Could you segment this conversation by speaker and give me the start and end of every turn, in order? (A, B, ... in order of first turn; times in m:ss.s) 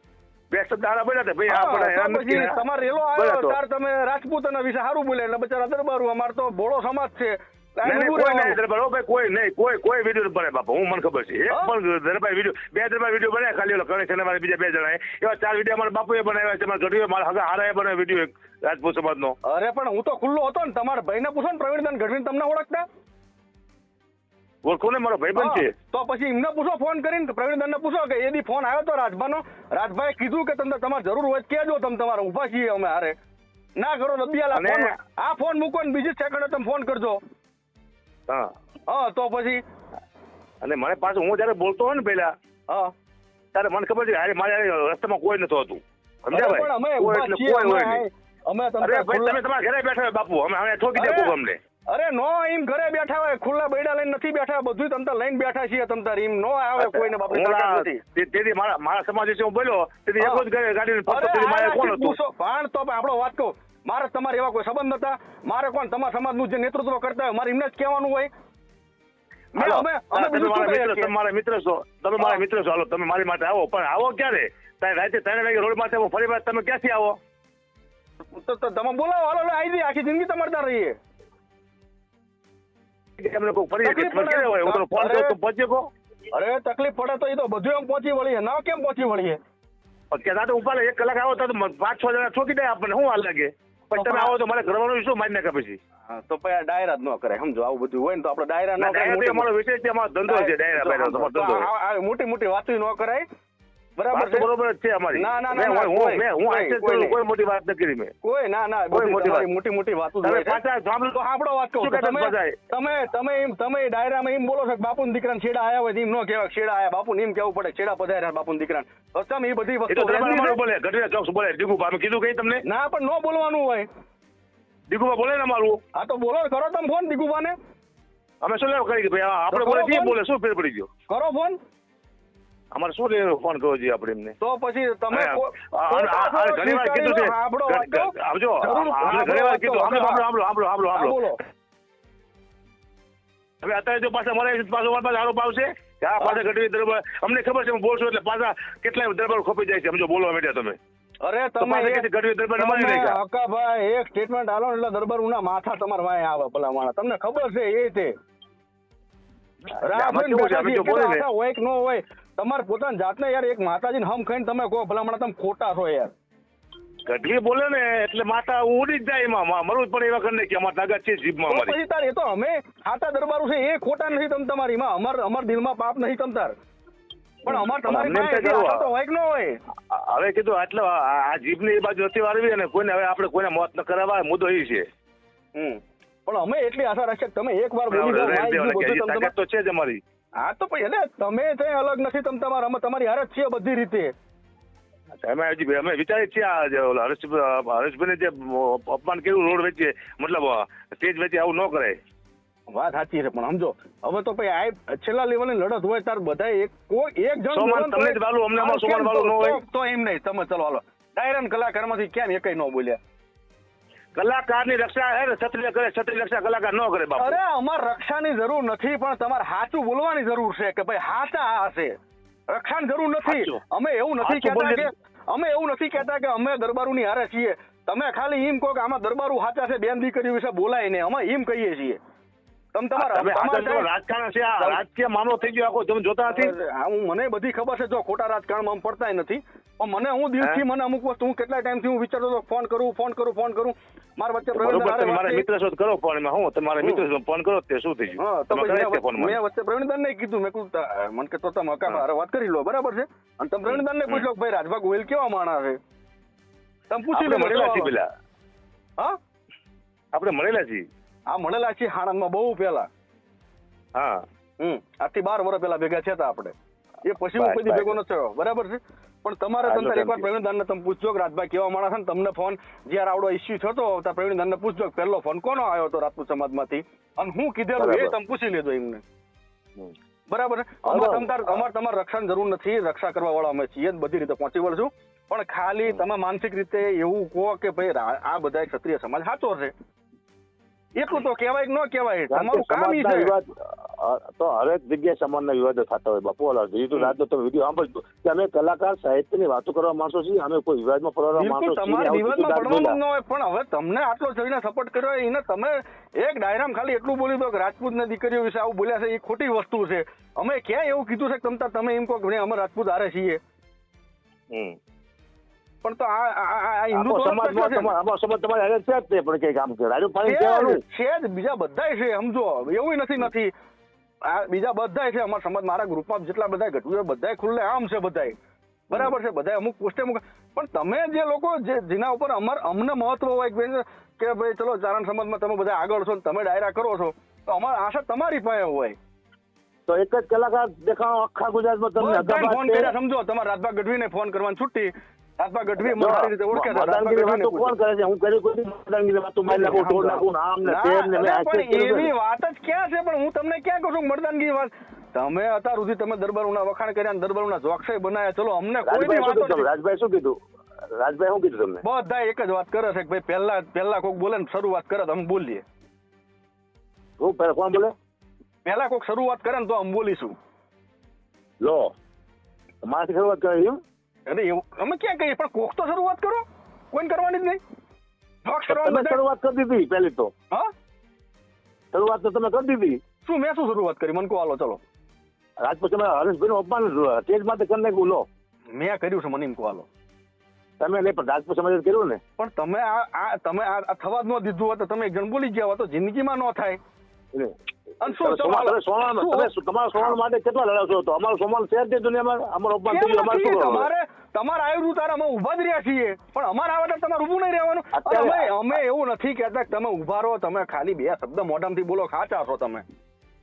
0:00.5-0:02.6 A
0:01.5-0:08.6 B
0:03.2-0:03.6 A
0:07.8-0:19.4 A
0:11.5-0:11.7 B
0:19.4-0:22.8 B
0:24.6-0:25.7 A
0:25.4-0:33.1 B
0:33.8-0:37.2 B
0:34.5-0:34.9 A
0:38.9-0:39.6 B
0:40.6-0:42.3 A
0:43.5-0:48.0 A
0:46.3-0:49.4 B
0:48.8-0:51.6 A
0:50.9-0:51.4 B
0:51.9-0:58.0 B
0:56.8-1:02.2 A
1:00.2-1:00.5 B
1:01.1-1:08.3 B
1:09.6-1:11.1 B
1:09.6-1:17.2 A
1:18.3-1:20.9 B
1:23.2-1:25.8 A
1:23.8-1:25.4 B
1:26.3-1:29.4 B
1:30.1-1:35.8 A
1:33.9-1:34.4 B
1:36.1-1:39.5 B
1:38.8-1:41.7 A
1:40.2-1:43.2 B
1:44.0-1:44.5 B
1:44.1-1:48.1 A
1:45.1-1:47.2 B
1:48.2-1:50.6 B
1:48.9-1:49.5 A
1:50.2-1:51.2 A
1:51.1-2:00.6 B
1:51.8-1:52.6 A
1:59.9-2:02.6 A
2:02.6-2:03.9 B
2:04.9-2:05.8 A
2:06.0-2:07.5 B
2:08.4-2:10.9 A
2:09.5-2:10.2 B
2:11.1-2:11.6 B
2:12.7-2:14.4 A
2:14.4-2:20.2 B
2:15.1-2:21.2 A
2:20.9-2:21.4 B
2:23.6-2:30.8 A
2:31.2-2:32.0 B
2:31.6-2:33.2 A
2:32.6-2:38.1 B
2:39.8-2:41.2 A
2:39.8-2:46.1 B
2:47.1-2:51.8 A
2:51.5-2:56.5 B
2:57.4-2:59.6 B
2:57.5-2:58.8 A
2:59.9-3:04.9 A
3:05.6-3:09.3 B
3:07.9-3:10.0 A
3:10.4-3:14.1 B
3:15.2-3:22.0 A
3:22.7-3:33.0 B
3:27.5-3:29.6 A
3:34.1-3:37.4 A
3:37.2-3:41.9 B
3:42.5-3:52.0 B
3:43.2-3:43.6 A
3:44.2-3:44.9 A
3:52.7-3:53.9 B
3:53.0-3:56.6 A
3:56.3-4:05.5 B
4:04.5-4:09.4 A
4:06.8-4:07.1 B
4:08.2-4:15.8 B
4:13.6-4:14.3 A
4:16.9-4:17.9 B
4:17.1-4:18.1 A
4:20.1-4:20.8 A
4:21.3-4:22.9 B
4:24.0-4:24.2 A
4:24.6-4:39.0 B
4:27.4-4:28.0 A
4:29.6-4:30.3 A
4:37.8-4:38.1 A
4:40.3-4:49.7 B
4:40.8-4:41.6 A
4:51.0-4:53.4 B
4:52.3-5:03.0 A
5:01.4-5:13.4 B
5:14.5-5:14.8 A
5:15.8-5:17.9 B
5:16.9-5:20.8 A
5:20.2-5:23.5 B
5:24.2-5:28.3 B
5:28.9-5:39.0 B
5:39.9-5:43.0 A
5:42.0-5:47.7 B
5:45.8-5:52.1 A
5:49.5-5:59.7 B
5:58.8-6:00.4 A
6:01.0-6:01.8 A
6:01.8-6:05.6 B
6:07.2-6:07.9 A
6:08.6-6:10.3 B
6:11.6-6:11.9 A
6:12.8-6:13.8 A
6:14.3-6:17.6 B
6:18.4-6:19.2 B
6:18.7-6:20.3 A
6:21.9-6:23.0 A
6:23.2-6:24.8 B
6:25.6-6:28.2 A
6:28.8-6:29.9 B
6:30.8-6:32.2 A
6:32.4-6:36.8 B
6:38.0-6:40.2 B
6:38.0-6:43.9 A
6:42.8-6:52.8 B
6:47.9-6:48.8 A